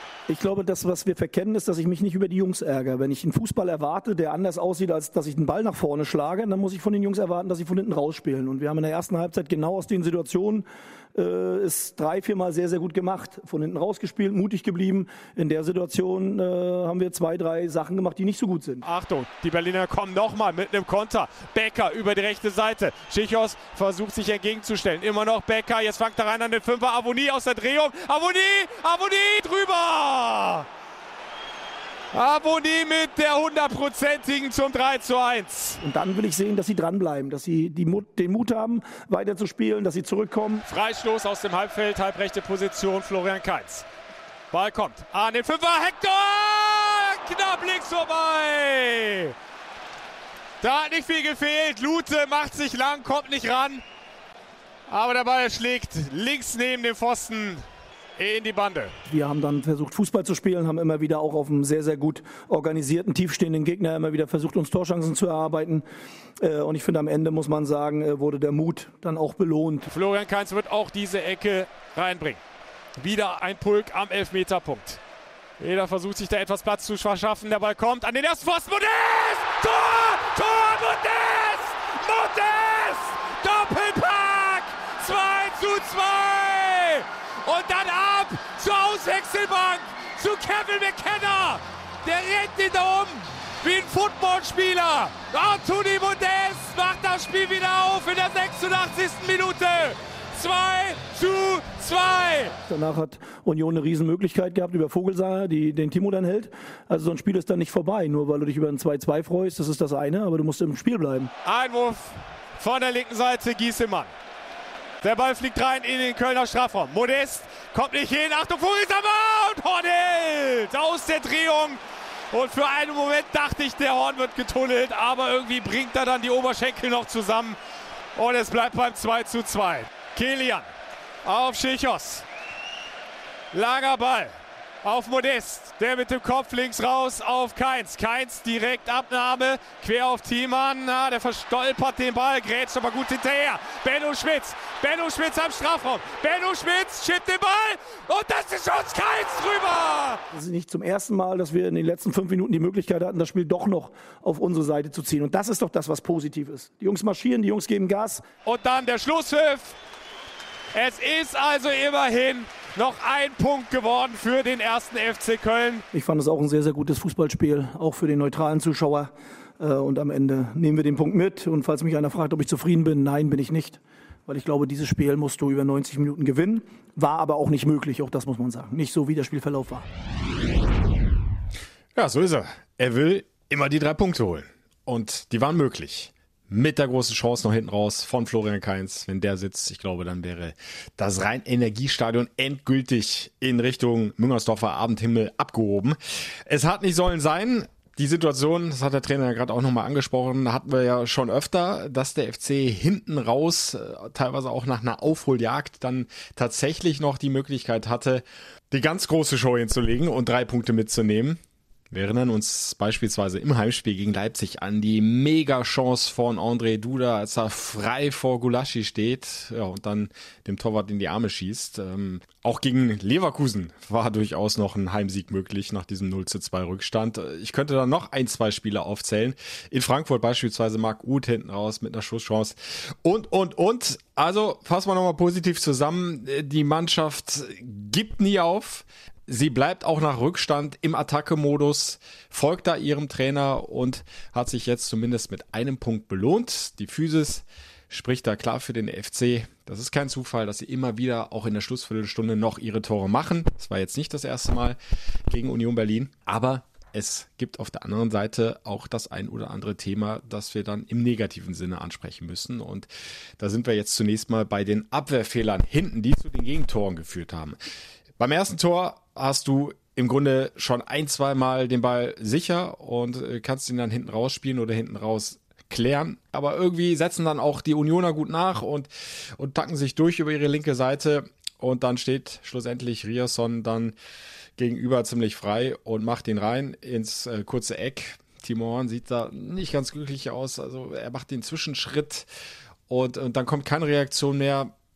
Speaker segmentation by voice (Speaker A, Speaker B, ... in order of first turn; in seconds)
Speaker A: 0.3-18.8, 35.8-40.6, 59.1-65.8, 66.4-69.9, 102.7-111.3, 150.3-158.2, 165.9-179.8
Speaker B: 18.8-30.6, 32.1-35.8, 40.7-43.8, 44.5-49.3, 50.6-53.8, 54.9-57.6, 58.2-58.9, 69.9-72.4, 73.0-75.0, 75.6-102.5, 111.4-114.1, 115.0-127.6, 128.2-130.7, 131.2-132.2, 133.5-150.2, 158.4-159.7, 160.7-165.8
Speaker C: 181.9-211.4, 211.9-262.9, 263.4-267.6, 268.2-283.9, 284.6-292.3, 292.9-294.7